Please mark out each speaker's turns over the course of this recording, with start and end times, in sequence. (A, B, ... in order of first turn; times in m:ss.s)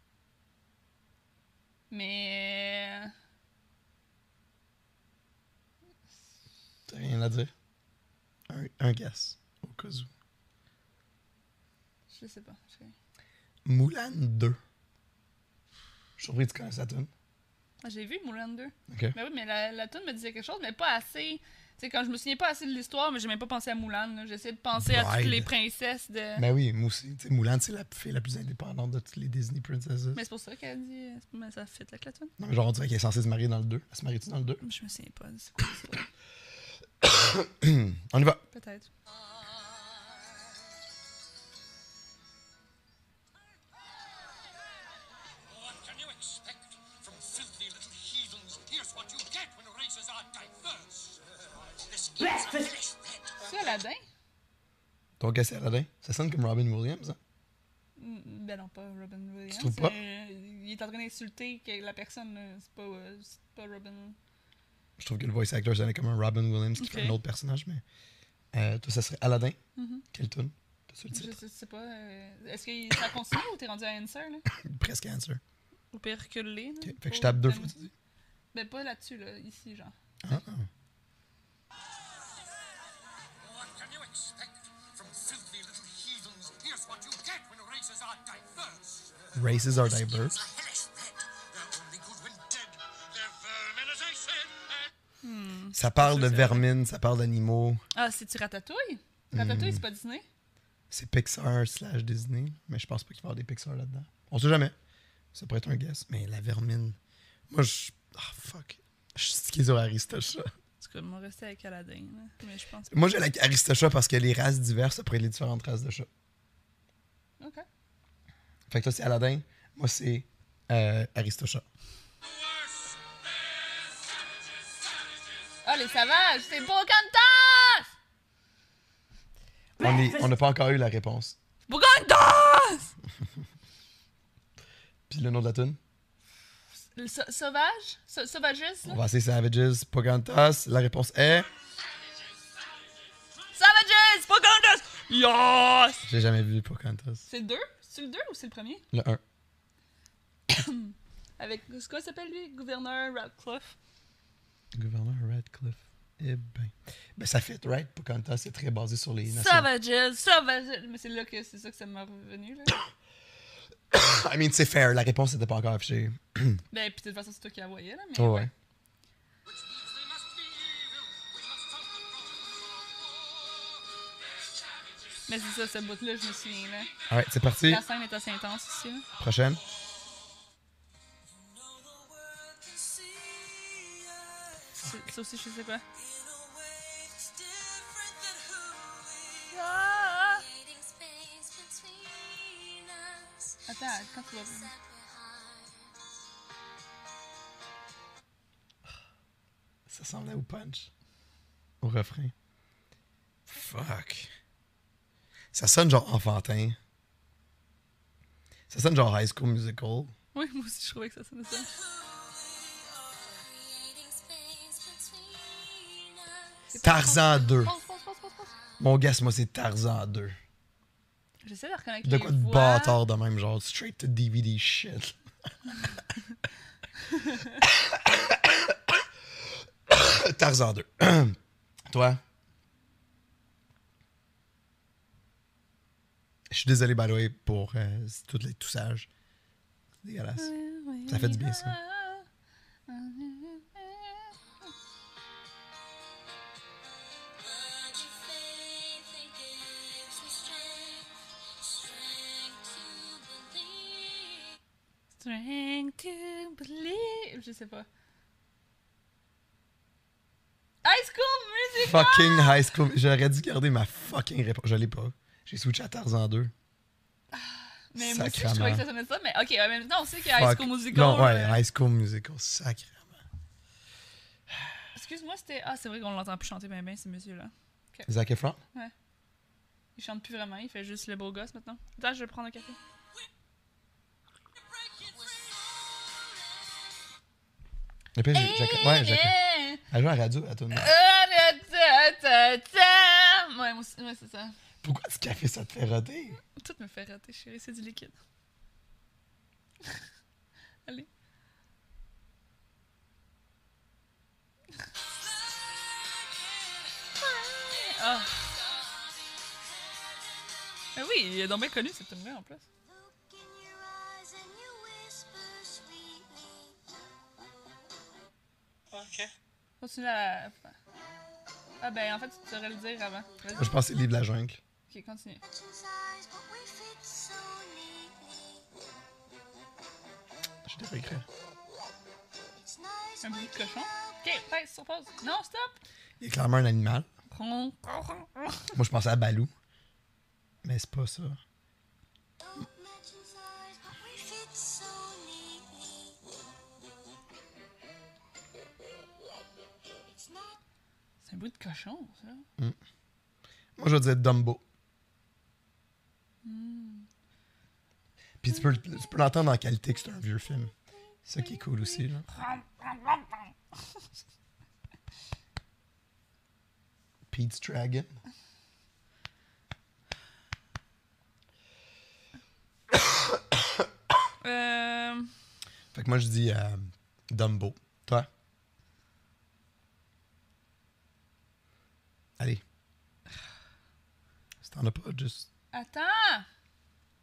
0:01.9-0:03.1 A
0:06.9-0:07.5 B
0:08.5-0:10.1 B
0:12.1-0:12.9 A
0:13.6-0:14.6 B
0:16.2-0:17.1 B
0:17.8-0:26.4 A
0:18.9-0:19.2 B
0:24.8-0:25.5 B
0:26.4-0:30.2 B
0:30.1-0:32.3 A
0:32.4-0:34.6 B
0:34.6-0:36.0 A
0:37.0-0:38.4 B
0:38.5-0:38.9 A
0:46.0-0:46.4 C
0:47.0-0:50.6 C
0:51.9-0:53.0 C
0:53.4-0:54.0 A
0:55.2-0:57.2 B
0:58.0-1:04.2 A
0:59.5-1:00.0 B
1:05.0-1:07.8 B
1:06.8-1:07.2 A
1:08.5-1:09.6 B
1:09.8-1:10.0 A
1:10.1-1:11.4 B
1:11.1-1:14.4 A
1:14.5-1:15.4 B
1:15.9-1:17.9 A
1:16.8-1:17.9 B
1:18.5-1:19.9 A
1:20.2-1:20.7 B
1:23.9-1:24.3 C
1:25.0-1:28.8 C
1:29.3-1:30.4 B
1:30.3-1:31.0 C
1:31.6-1:32.7 C
1:33.6-1:34.3 C
1:35.2-1:36.6 A
1:35.7-1:37.8 B
1:37.9-1:40.2 A
1:39.3-1:39.8 B
1:40.9-1:44.8 B
1:45.3-1:47.0 B
1:47.5-1:50.5 B
1:50.8-1:52.9 A
1:52.9-1:56.1 B
1:57.4-1:57.6 A
1:58.7-2:01.6 B
2:05.6-2:07.9 A
2:09.8-2:11.4 B
2:11.7-2:12.9 A
2:15.1-2:15.8 B
2:17.0-2:19.0 A
2:18.8-2:21.5 B
2:23.5-2:26.0 A
2:26.0-2:27.2 B
2:27.3-2:28.8 A
2:28.9-2:29.2 B
2:30.5-2:33.7 A
2:34.7-2:39.7 B
2:39.3-2:42.8 A
2:43.9-2:46.6 B
2:46.7-2:48.5 A
2:48.2-2:48.5 B
2:55.3-2:56.9 A
2:57.1-2:57.8 B
2:57.6-2:59.1 A
2:59.2-2:59.6 B
3:01.4-3:04.0 C
3:04.8-3:05.8 A
3:06.0-3:09.1 C
3:09.5-3:10.4 A
3:13.7-3:14.7 A
3:14.6-3:15.4 D
3:19.9-3:20.9 B
3:21.8-3:22.3 B
3:23.5-3:24.3 B
3:25.5-3:26.8 B
3:28.7-3:30.1 B
3:30.3-3:31.7 A
3:33.5-3:34.2 D
3:36.7-3:38.5 A
3:36.8-3:37.7 B
3:38.8-3:40.4 B
3:41.4-3:43.0 A
3:42.0-3:45.2 B
3:47.1-3:47.5 A
3:47.6-3:51.4 B
3:51.9-3:52.2 B
3:56.5-3:59.1 B
4:00.0-4:00.5 B
4:00.4-4:02.3 A
4:01.0-4:01.8 B
4:02.9-4:04.3 A
4:10.3-4:10.8 D
4:15.2-4:17.9 A
4:20.8-4:22.6 A
4:21.8-4:26.5 B
4:27.3-4:31.6 A
4:28.0-4:28.8 B
4:30.3-4:33.2 B
4:34.9-4:38.1 A
4:38.0-4:38.6 B
4:40.0-4:42.8 A
4:48.1-4:49.4 B
4:48.3-4:49.8 A
4:49.9-4:50.9 B
4:50.7-4:54.6 A
4:54.8-4:56.4 B
4:56.5-4:58.2 A
5:07.1-5:08.5 A
5:10.9-5:12.6 A
5:12.8-5:17.0 D
5:19.8-5:20.8 A
5:21.8-5:23.8 A
5:23.5-5:24.6 B
5:24.9-5:25.4 A
5:25.5-5:28.6 D
5:30.6-5:31.2 B
5:32.6-5:34.3 D
5:33.2-5:35.8 A
5:36.2-5:37.1 B
5:37.3-5:38.7 A
5:38.7-5:39.5 B
5:40.6-5:41.4 B
5:42.4-5:46.2 D
5:50.1-5:50.6 D
5:51.2-5:52.4 A
5:53.8-5:54.6 B
5:56.4-5:57.1 A
5:58.4-6:00.7 B
6:01.2-6:02.3 B
6:01.4-6:03.5 A
6:07.3-6:08.2 B
6:14.4-6:15.3 A
6:15.9-6:18.3 B
6:24.6-6:25.5 B
6:25.7-6:26.4 A